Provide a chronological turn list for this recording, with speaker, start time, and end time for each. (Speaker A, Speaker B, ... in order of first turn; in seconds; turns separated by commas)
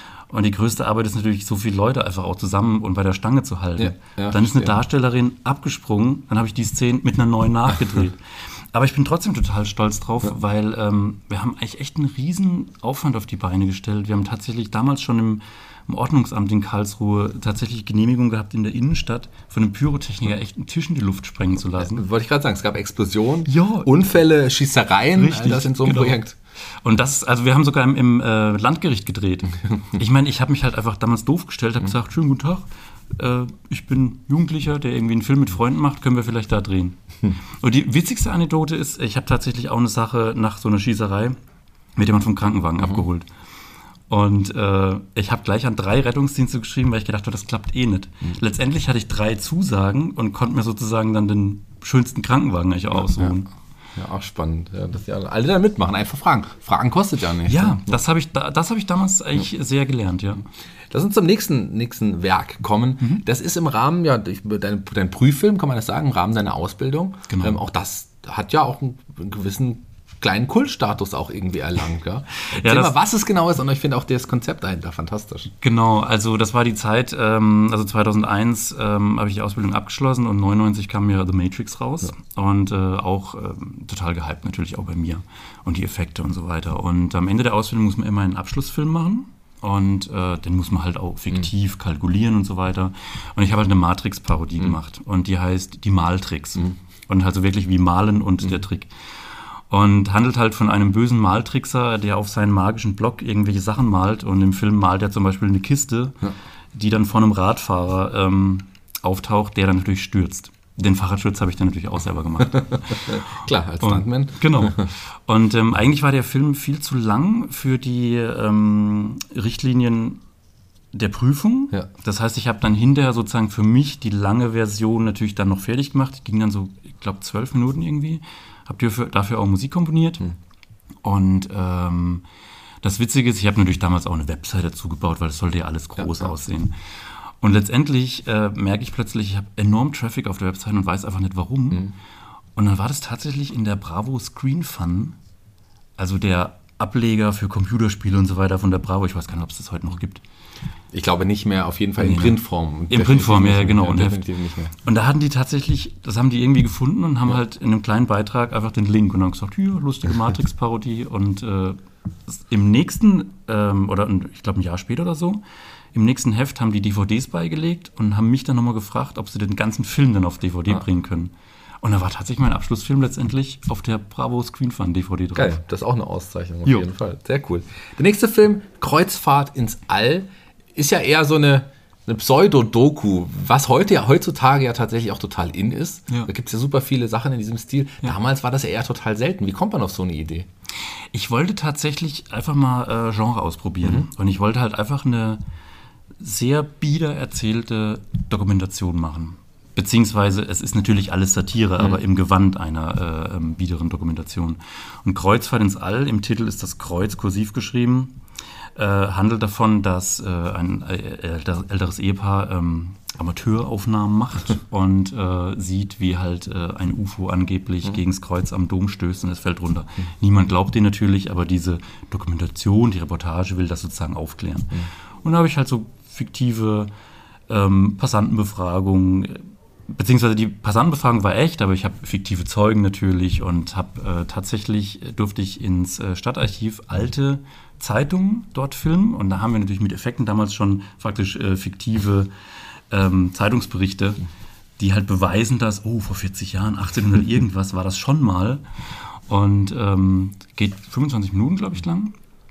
Speaker A: 0.3-22.0, Speaker B: 3.8-4.8, Speaker B: 21.8-26.4, Speaker A: 23.5-23.9, Speaker A: 25.1-26.2, Speaker A: 26.8-32.6, Speaker A: 33.2-41.4, Speaker A: 42.0-43.3, Speaker A: 44.1-53.5, Speaker B: 54.0-58.0, Speaker A: 57.5-60.5, Speaker B: 60.9-75.5, Speaker A: 67.3-67.6, Speaker A: 72.4-72.9, Speaker A: 75.6-120.2, Speaker B: 112.4-114.9, Speaker A: 120.9-130.3, Speaker A: 131.0-132.2, Speaker A: 132.8-141.9, Speaker B: 136.0-136.3, Speaker A: 142.6-145.2, Speaker A: 146.0-150.2, Speaker B: 150.9-154.8, Speaker A: 152.0-154.2, Speaker A: 154.8-165.4, Speaker A: 165.9-175.6, Speaker B: 175.3-190.5, Speaker A: 191.1-195.4, Speaker A: 196.2-208.2, Speaker A: 208.8-226.9, Speaker A: 227.5-242.3, Speaker A: 242.9-244.2, Speaker A: 244.8-252.2